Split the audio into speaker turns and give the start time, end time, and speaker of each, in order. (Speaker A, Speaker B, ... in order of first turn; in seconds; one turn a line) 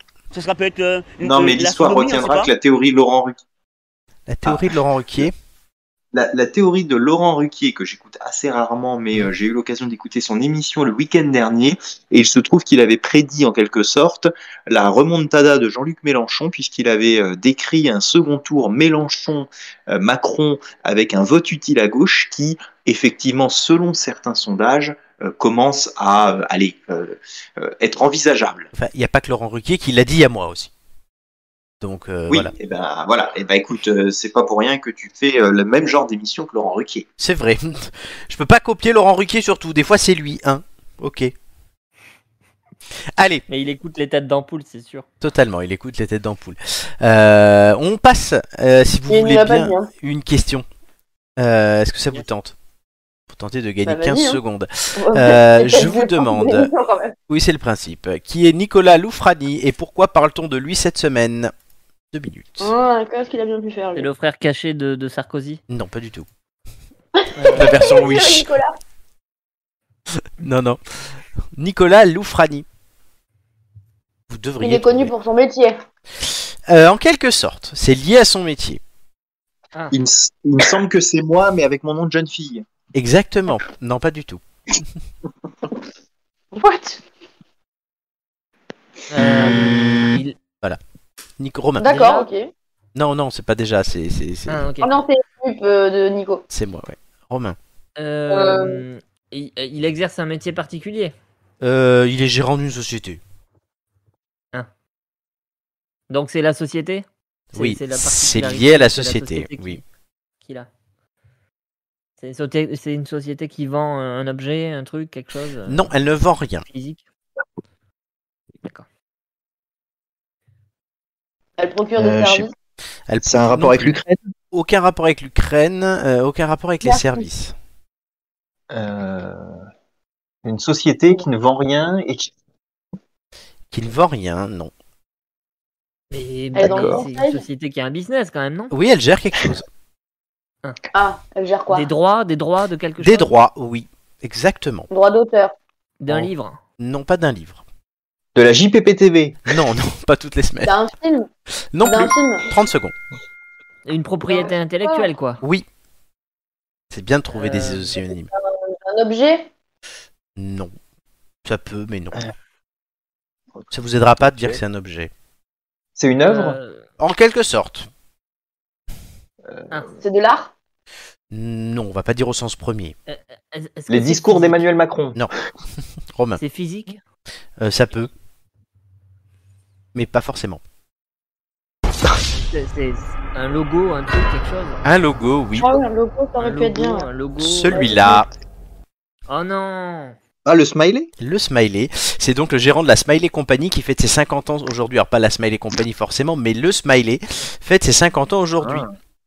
Speaker A: 0.3-2.5
Speaker B: 1.2-3.4
Speaker C: 4.3-5.3
Speaker B: 6.1-28.7
Speaker C: 28.7-30.7
Speaker C: 31.8-32.5
Speaker B: 32.3-37.1
Speaker C: 37.2-41.3
Speaker C: 43.2-43.4
Speaker D: 43.5-45.1
Speaker C: 45.2-50.7
Speaker E: 49.1-49.9
Speaker C: 51.4-52.5
Speaker C: 53.3-56.7
Speaker E: 53.9-54.4
Speaker E: 55.0-57.1
Speaker C: 57.3-61.5
Speaker C: 62.1-62.7
Speaker E: 62.6-64.1
Speaker D: 64.0-65.6
Speaker C: 65.7-66.3
Speaker E: 67.2-68.8
Speaker D: 67.4-67.9
Speaker C: 67.6-68.5
Speaker C: 70.4-72.7
Speaker C: 74.3-75.1
Speaker E: 74.6-75.8
Speaker C: 76.2-78.8
Speaker B: 79.9-82.6
Speaker C: 82.9-84.4
Speaker E: 86.5-87.0
Speaker D: 89.1-90.4
Speaker C: 91.4-91.9
Speaker E: 91.8-92.5
Speaker D: 91.8-92.3
Speaker C: 93.0-94.7
Speaker D: 94.5-94.9
Speaker E: 94.8-96.4
Speaker C: 96.5-97.6
Speaker D: 98.0-101.1
Speaker E: 98.3-98.8
Speaker C: 101.6-103.2
Speaker D: 106.1-109.8
Speaker C: 107.5-109.8
Speaker D: 110.4-110.7
Speaker D: 112.2-115.8
Speaker C: 115.7-116.7
Speaker D: 116.7-117.0
Speaker E: 121.6-122.5
Speaker B: 122.0-122.5
Speaker C: 123.1-124.0
Speaker B: 123.2-124.3
Speaker C: 124.5-127.5
Speaker E: 126.8-127.2
Speaker B: 128.7-129.5
Speaker B: 130.4-132.3
Speaker C: 133.7-134.7
Speaker D: 136.1-138.7
Speaker E: 136.6-137.4
Speaker B: 136.6-137.0
Speaker C: 138.7-139.7
Speaker E: 140.9-141.9
Speaker D: 141.7-143.3
Speaker C: 143.0-144.9
Speaker E: 144.9-145.5
Speaker D: 146.0-146.6
Speaker C: 146.8-147.6
Speaker B: 148.3-149.4
Speaker C: 149.5-150.8
Speaker E: 150.6-151.3
Speaker C: 151.7-152.9
Speaker E: 151.8-152.5
Speaker D: 153.9-155.4
Speaker E: 154.3-155.1
Speaker C: 155.4-155.7
Speaker C: 156.9-158.3
Speaker D: 157.3-158.0
Speaker E: 158.3-159.5
Speaker C: 160.4-160.7
Speaker C: 161.4-162.3
Speaker C: 163.7-165.1
Speaker B: 164.2-164.6
Speaker B: 166.0-166.6
Speaker D: 166.3-166.8
Speaker C: 167.0-167.9
Speaker B: 169.5-169.9
Speaker E: 170.0-170.5
Speaker C: 171.3-173.0
Speaker D: 173.1-174.6
Speaker B: 173.9-175.3
Speaker C: 176.1-176.4
Speaker D: 176.4-177.0
Speaker C: 177.6-178.1
Speaker C: 179.9-180.6
Speaker D: 182.3-184.8
Speaker C: 184.8-185.7
Speaker E: 185.6-187.1
Speaker D: 186.4-188.0
Speaker C: 187.4-188.3
Speaker E: 187.7-188.2
Speaker D: 189.3-190.2
Speaker B: 190.4-191.1
Speaker C: 191.2-198.8
Speaker B: 198.6-198.9